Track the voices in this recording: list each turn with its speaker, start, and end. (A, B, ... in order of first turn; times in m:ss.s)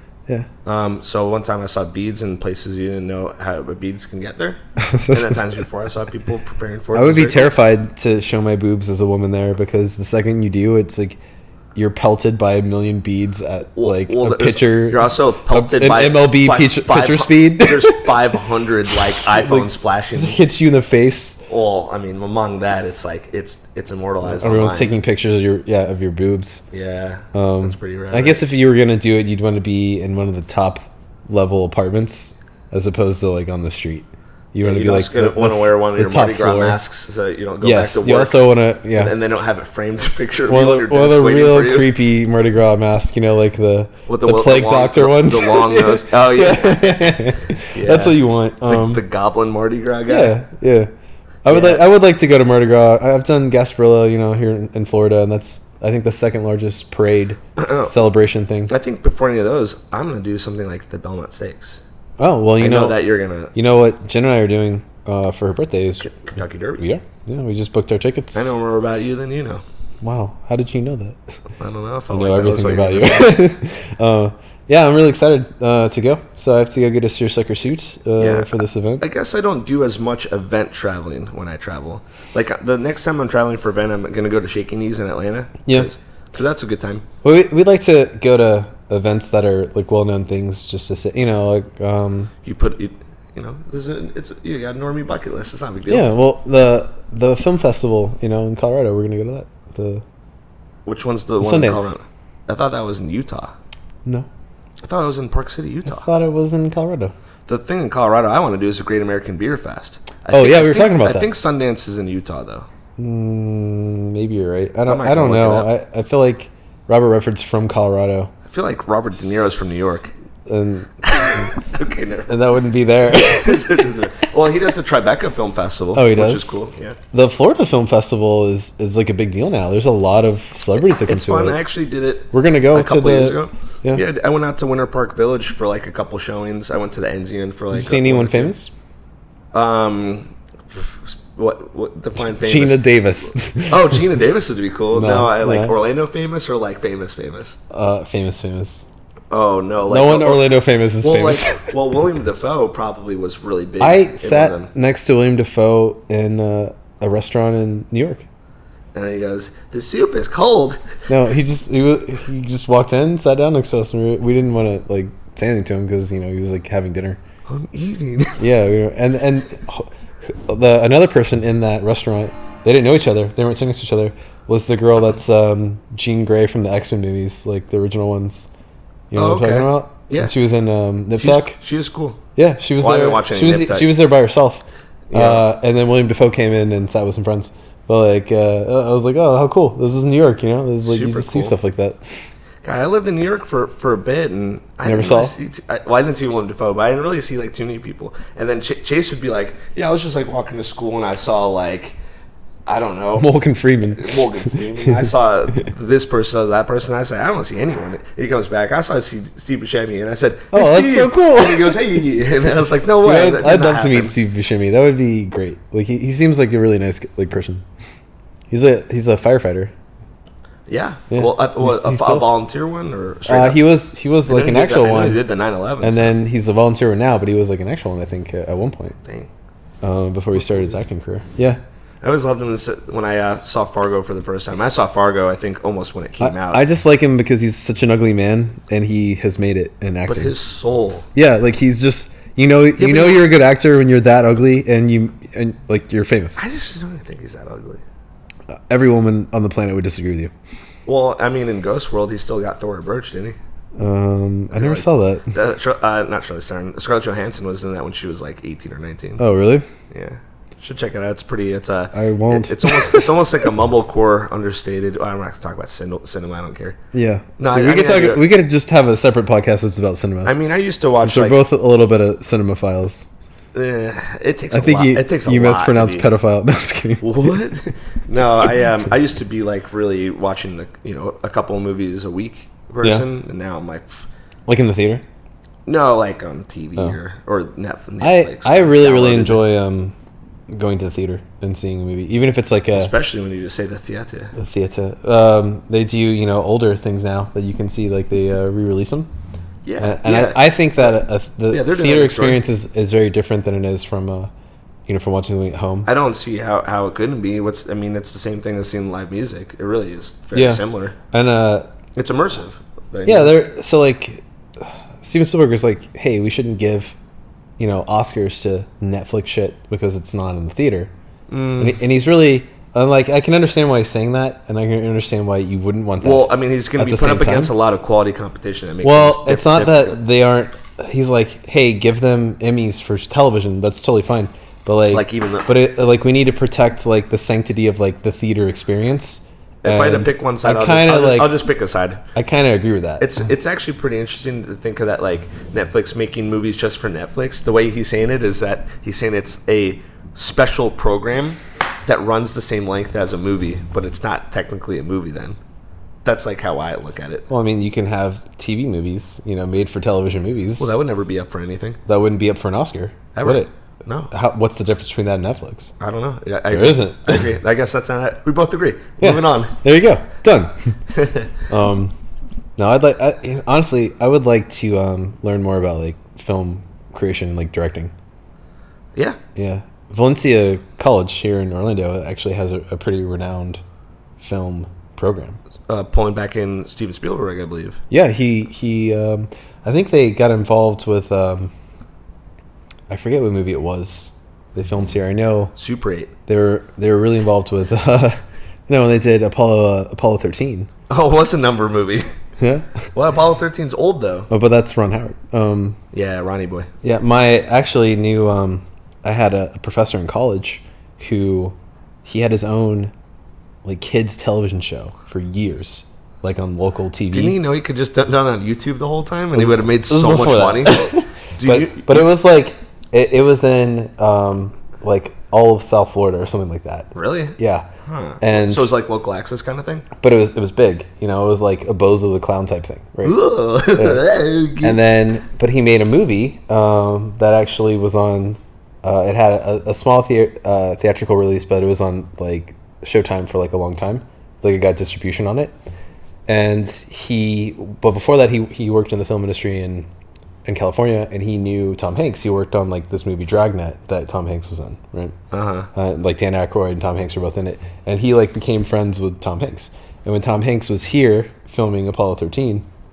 0:00.6-0:04.6 A
0:04.8-0:05.4 B
0:05.1-0:07.5 A
0:06.9-0:11.2 B
0:11.7-0:18.1 B
0:13.8-0:20.4 A
0:19.1-0:21.4 B
0:21.5-0:24.9 A
0:24.3-0:26.6 B
0:26.7-0:28.4 A
0:27.3-0:36.8 B
0:34.6-0:41.9 A
0:37.6-0:39.1 B
0:40.5-0:49.0 B
0:44.1-0:50.4 A
0:50.1-0:50.9 B
0:51.4-0:58.7 B
0:51.5-0:51.8 A
0:57.6-0:58.0 A
0:58.7-1:01.8 A
1:02.2-1:06.1 B
1:02.6-1:03.5 A
1:06.0-1:06.8 A
1:06.8-1:08.5 B
1:08.3-1:09.6 A
1:10.0-1:11.2 B
1:11.6-1:13.4 A
1:12.1-1:19.0 B
1:18.2-1:27.0 A
1:27.2-1:32.3 B
1:32.4-1:36.1 A
1:35.9-1:40.0 B
1:40.8-1:43.5 A
1:41.4-1:41.9 B
1:44.8-1:46.1 A
1:45.9-1:47.1 B
1:47.5-1:52.7 A
1:50.3-1:51.3 B
1:53.0-1:58.3 B
1:54.9-1:55.7 A
1:58.5-2:00.1 A
2:00.5-2:01.5 B
2:01.0-2:02.4 A
2:02.3-2:03.9 B
2:03.1-2:07.0 A
2:05.9-2:11.6 B
2:10.8-2:18.5 A
2:12.3-2:14.0 B
2:17.7-2:18.7 B
2:19.5-2:22.9 A
2:22.4-2:24.0 B
2:23.7-2:27.6 A
2:24.9-2:25.7 B
2:27.7-2:28.9 B
2:29.3-2:30.5 A
2:29.9-2:31.7 B
2:31.0-2:34.7 A
2:33.8-2:38.2 B
2:38.9-2:40.8 A
2:41.1-2:47.2 B
2:47.5-2:48.4 A
2:48.4-2:58.5 B
2:59.1-3:01.6 B
2:59.1-3:00.3 A
3:01.2-3:02.2 A
3:02.4-3:12.2 B
3:02.8-3:03.9 A
3:05.1-3:05.4 A
3:10.8-3:11.6 A
3:12.6-3:22.0 A
3:14.8-3:15.3 B
3:22.6-3:23.3 A
3:23.2-3:25.0 B
3:24.0-3:34.1 A
3:30.5-3:32.0 B
3:33.0-3:37.6 B
3:38.5-3:39.7 B
3:40.7-3:43.6 A
3:41.1-3:42.3 B
3:43.3-3:45.2 B
3:44.2-3:46.1 A
3:45.8-3:49.0 B
3:49.0-3:49.3 A
3:49.8-3:51.6 B
3:50.4-3:50.7 A
3:52.0-3:56.6 A
3:56.2-4:00.3 B
4:00.1-4:01.1 A
4:01.1-4:06.4 B
4:02.8-4:03.3 A
4:06.4-4:07.8 A
4:08.5-4:10.3 B
4:10.8-4:13.4 A
4:13.8-4:15.3 B
4:14.5-4:19.2 A
4:19.2-4:19.6 B
4:19.9-4:26.8 A
4:21.9-4:23.1 B
4:26.9-4:30.3 B
4:27.4-4:28.3 A
4:30.2-4:31.4 A
4:31.0-4:33.1 B
4:33.5-4:36.1 A
4:34.5-4:37.2 B
4:37.0-4:44.0 A
4:44.5-4:45.0 B
4:45.6-4:49.4 A
4:48.0-4:49.9 B
4:50.5-4:52.9 B
4:52.7-4:54.3 A
4:54.3-4:59.1 B
4:59.6-5:00.9 A
4:59.8-5:04.3 B
5:01.5-5:02.4 A
5:04.9-5:05.9 B
5:05.8-5:11.0 A
5:10.3-5:11.7 B
5:11.9-5:13.4 A
5:13.0-5:17.0 B
5:17.6-5:20.9 B
5:21.3-5:21.8 A
5:21.6-5:27.5 B
5:26.0-5:30.0 A
5:28.8-5:41.4 B
5:34.9-5:35.5 A
5:39.6-5:42.0 A
5:42.1-5:43.1 B
5:43.0-5:55.4 A
5:56.0-5:57.3 A
5:57.3-6:00.7 B
6:00.6-6:01.8 A
6:01.8-6:03.5 B
6:03.1-6:04.1 A
6:04.1-6:05.7 B
6:05.8-6:09.5 A
6:06.5-6:07.3 B
6:09.0-6:10.7 B
6:10.9-6:11.3 A
6:11.5-6:11.9 B
6:12.6-6:17.9 B
6:19.4-6:23.6 B
6:24.2-6:25.4 B
6:25.7-6:27.8 A
6:27.9-6:31.5 B
6:32.9-6:35.5 B
6:35.6-6:36.1 A
6:36.3-6:40.7 B
6:40.9-6:42.1 A
6:42.4-6:42.8 B
6:42.9-6:44.3 A
6:44.3-6:45.8 B
6:45.9-6:46.7 A
6:46.8-6:52.9 B
6:53.6-6:57.4 B
6:57.1-7:02.1 A
6:59.3-7:07.7 B
7:06.9-7:09.8 A
7:08.2-7:08.7 B
7:10.0-7:13.2 B
7:13.0-7:14.8 A
7:13.7-7:14.0 B
7:14.6-7:25.5 B
7:26.3-7:29.9 B
7:30.4-7:35.1 B
7:35.3-7:35.7 A
7:35.7-7:42.6 B